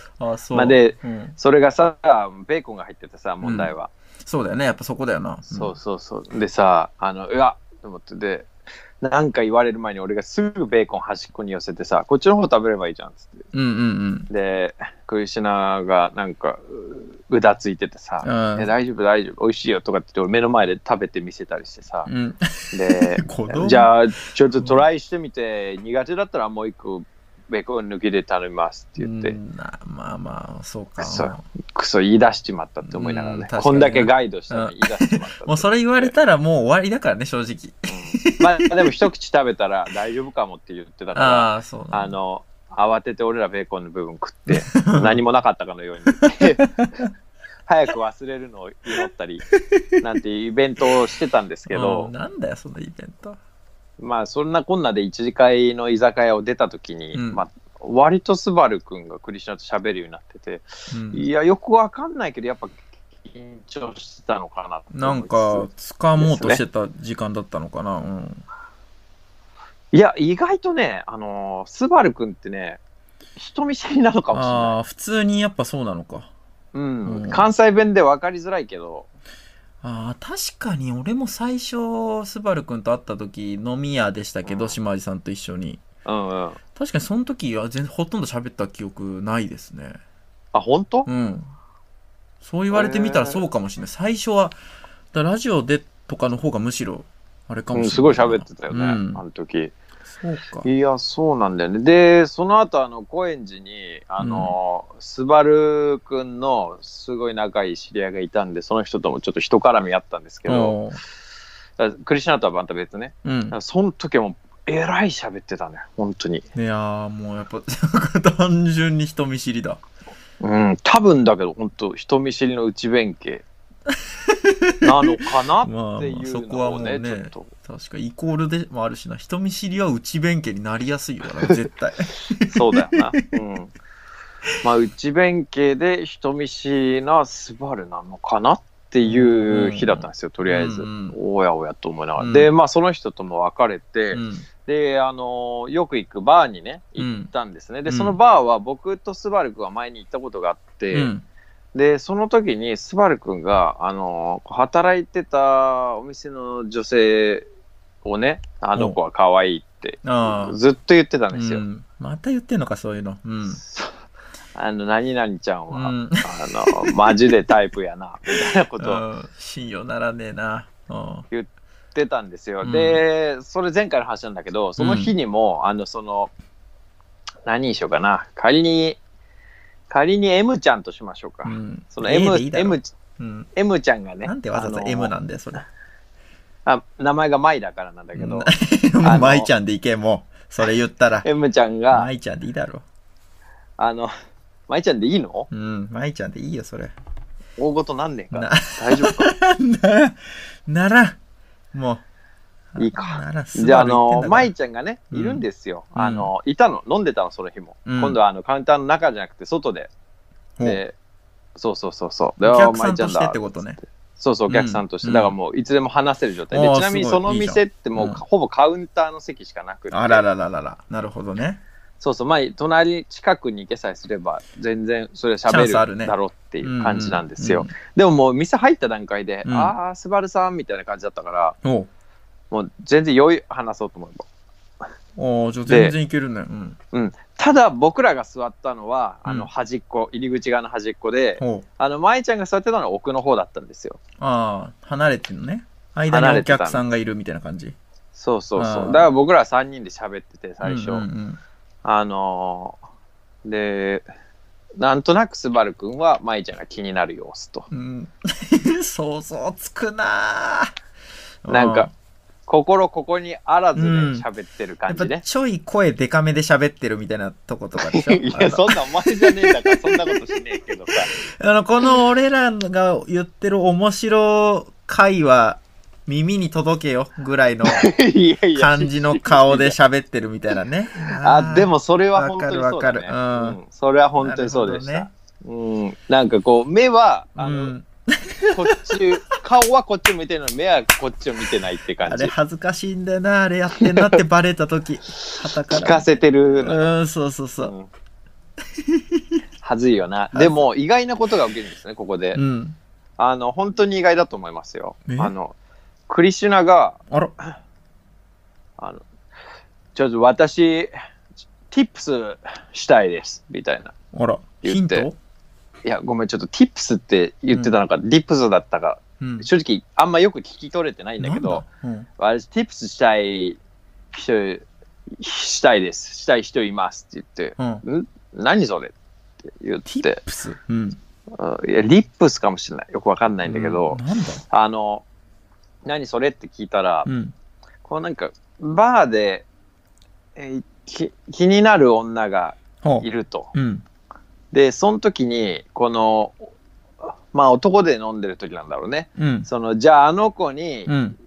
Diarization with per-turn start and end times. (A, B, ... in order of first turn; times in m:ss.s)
0:00.2-0:01.4 A
0:00.5-0:03.9 B
0:03.4-0:03.7 A
0:04.2-0:05.8 A
0:05.5-0:08.5 B
0:09.0-0:13.4 B
0:13.5-0:14.3 A
0:14.3-0:22.1 B
0:18.2-0:18.7 A
0:22.1-0:23.9 A
0:22.7-0:29.4 B
0:24.5-0:24.8 A
0:29.0-0:31.4 A
0:31.0-0:36.1 B
0:32.9-0:38.5 A
0:37.9-0:46.7 B
0:41.2-0:42.1 A
0:44.5-0:45.2 A
0:46.2-0:47.1 A
0:47.7-0:49.5 B
0:50.0-0:52.1 B
0:51.7-0:53.4 A
0:54.0-1:06.6 B
0:57.1-0:57.4 A
1:00.9-1:01.2 A
1:04.9-1:08.4 A
1:09.9-1:12.8 B
1:13.4-1:14.8 B
1:14.3-1:16.3 A
1:16.7-1:19.1 B
1:17.1-1:17.5 A
1:19.8-1:25.8 A
1:24.4-1:24.8 B
1:26.0-1:26.6 B
1:26.8-1:30.0 A
1:30.5-1:31.1 B
1:31.1-1:31.5 A
1:32.4-1:34.6 A
1:32.7-1:33.4 B
1:35.1-1:39.2 A
1:37.7-1:39.7 B
1:40.1-1:40.7 A
1:40.6-1:50.8 B
1:44.2-1:44.5 A
1:50.5-1:51.0 A
1:51.8-1:56.5 B
1:53.2-1:53.6 A
1:56.6-1:59.8 A
2:00.4-2:03.4 B
2:03.9-2:13.0 A
2:04.8-2:07.5 B
2:12.5-2:13.7 B
2:14.6-2:31.1 B
2:19.0-2:21.2 A
2:22.2-2:22.5 A
2:24.1-2:24.4 A
2:27.0-2:27.3 A
2:27.9-2:28.2 A
2:30.9-2:31.2 A
2:31.7-2:37.5 B
2:38.0-2:41.6 B
2:40.0-2:40.6 A
2:41.3-2:43.6 A
2:43.5-2:44.0 B
2:44.6-2:49.0 B
2:45.7-2:47.1 A
2:48.8-2:51.3 A
2:51.3-2:56.3 B
2:52.6-2:53.0 A
2:54.8-2:55.1 A
2:57.5-2:59.0 B
2:59.9-3:02.9 B
3:01.4-3:03.5 A
3:03.6-3:05.1 B
3:04.2-3:05.6 A
3:06.7-3:08.5 B
3:08.2-3:11.3 A
3:09.0-3:09.5 B
3:11.2-3:12.1 B
3:11.9-3:12.8 A
3:13.8-3:14.1 B
3:14.7-3:15.5 B
3:15.5-3:16.9 A
3:17.6-3:19.3 B
3:18.3-3:21.2 A
3:21.7-3:22.0 A
3:22.7-3:24.5 A
3:22.8-3:29.9 B
3:25.1-3:25.4 A
3:26.0-3:26.3 A
3:27.9-3:28.2 A
3:30.6-3:31.0 B
3:31.6-3:33.4 B
3:32.4-3:33.8 A
3:34.2-3:40.2 B
3:34.5-3:35.4 A
3:36.5-3:38.2 A
3:39.9-3:41.6 A
3:42.0-3:51.6 B
3:45.5-3:47.7 A
3:49.4-3:49.7 A
3:51.6-3:51.9 A
3:52.5-3:54.3 B
3:55.2-3:56.8 A
3:55.7-3:55.9 B
3:56.9-4:04.0 B
4:01.4-4:01.6 A
4:04.2-4:07.8 A
4:06.1-4:06.8 B
4:08.1-4:11.0 B
4:08.6-4:09.1 A
4:10.6-4:11.4 A
4:11.8-4:12.8 B
4:13.4-4:14.1 B
4:14.8-4:17.7 B
4:17.7-4:20.7 A
4:21.4-4:21.9 A
4:21.5-4:21.9 B
4:22.5-4:25.2 B
4:23.8-4:24.2 A
4:24.9-4:30.2 A
4:27.8-4:31.1 B
4:30.9-4:37.9 A
4:37.6-4:39.8 B
4:38.6-4:43.6 A
4:41.2-4:47.7 B
4:44.2-4:45.1 A
4:47.4-4:49.0 A
4:48.5-4:52.3 B
4:52.0-4:56.1 A
4:53.8-4:54.2 B
4:55.2-4:56.8 B
4:56.6-4:57.7 A
4:57.6-4:57.9 B
4:58.8-4:59.4 A
4:59.6-5:02.4 B
5:00.3-5:00.6 A
5:02.4-5:02.8 A
5:03.2-5:05.6 B
5:05.1-5:05.3 A
5:06.1-5:07.0 B
5:08.8-5:09.0 B
5:10.0-5:10.9 B
5:11.7-5:13.9 B
5:14.1-5:15.2 A
5:14.6-5:15.1 B
5:15.8-5:21.6 B
5:19.2-5:19.5 A
5:21.2-5:22.1 A
5:22.2-5:23.6 B
5:24.1-5:24.7 B
5:25.2-5:28.9 B
5:27.6-5:27.8 A
5:29.5-5:30.2 B
5:29.8-5:31.0 A
5:31.3-5:35.0 B
5:33.5-5:34.4 A
5:35.8-5:37.1 B
5:37.1-5:37.3 A
5:37.8-5:39.5 B
5:40.4-5:43.5 B
5:42.8-5:43.8 A
5:44.5-5:46.5 B
5:47.3-5:50.9 B
5:49.2-5:49.5 A
5:50.9-5:51.2 A